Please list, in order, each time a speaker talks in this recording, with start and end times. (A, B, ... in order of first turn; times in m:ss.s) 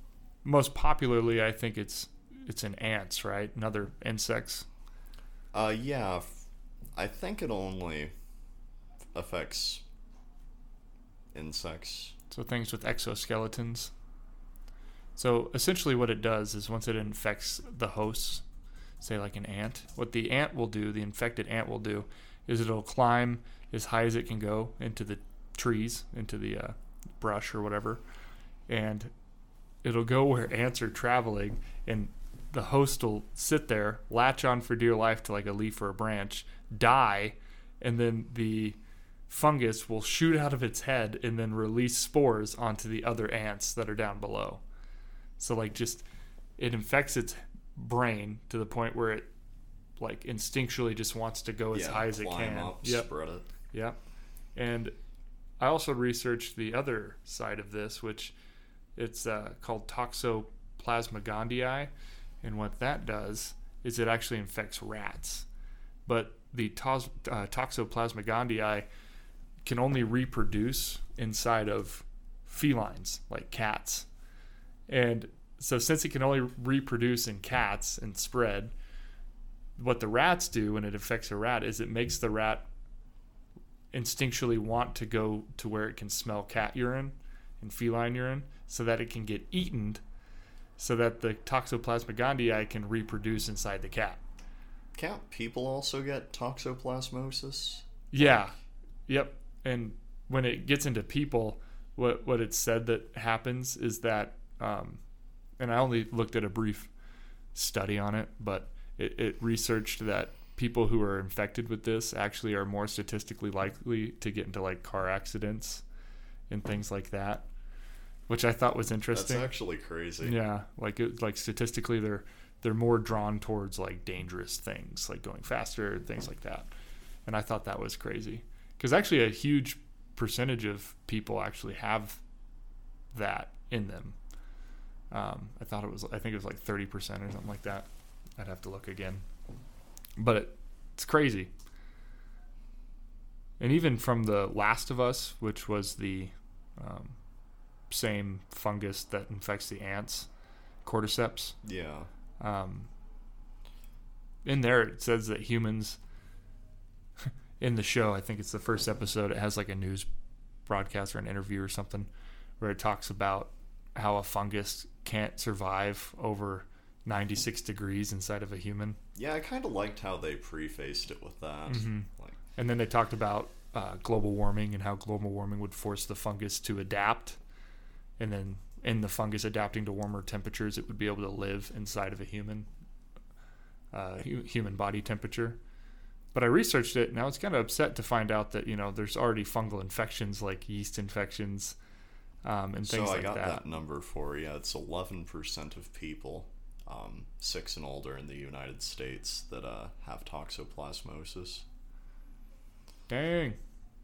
0:00.4-0:04.6 A
0:05.5-0:06.4 B
0:07.0-0:08.1 B
0:09.1-0:09.8 B
0:11.3-0:12.1 B
0:12.3-0:13.9 A
0:15.2-0:18.4 A
0:19.0-0:28.0 A
0:28.7-0:29.1 A
0:29.8-0:38.8 A
0:39.3-0:44.6 A
0:45.4-0:46.0 A
0:46.6-0:49.3 A
0:50.0-0:53.1 A
0:51.7-0:53.4 B
0:53.7-0:54.0 A
0:54.6-0:54.9 A
0:55.6-0:58.3 A
0:59.0-1:01.9 A
1:02.4-1:05.4 A
1:06.0-1:08.8 A
1:09.6-1:14.0 A
1:14.9-1:18.7 A
1:19.8-1:22.6 A
1:23.9-1:30.0 A
1:30.8-1:34.2 A
1:34.9-1:37.8 B
1:38.1-1:38.5 A
1:39.1-1:45.0 A
1:45.6-1:46.9 A
1:47.5-1:55.8 A
1:56.5-1:57.4 A
1:58.3-1:59.5 A
1:59.1-2:00.4 B
2:00.2-2:06.7 A
2:07.2-2:12.2 A
2:13.1-2:14.2 A
2:15.1-2:17.8 A
2:18.4-2:19.2 A
2:20.2-2:21.5 A
2:23.6-2:27.2 A
2:27.9-2:30.3 A
2:30.8-2:31.6 A
2:31.6-2:32.1 B
2:32.4-2:32.9 A
2:34.4-2:36.0 A
2:37.2-2:40.1 A
2:40.6-2:42.1 A
2:42.6-2:49.0 A
2:49.1-2:52.4 B
2:51.7-2:57.4 A
2:58.2-3:02.7 A
3:03.9-3:05.6 A
3:06.3-3:11.8 A
3:12.4-3:13.6 A
3:12.8-3:21.6 B
3:23.1-3:23.6 A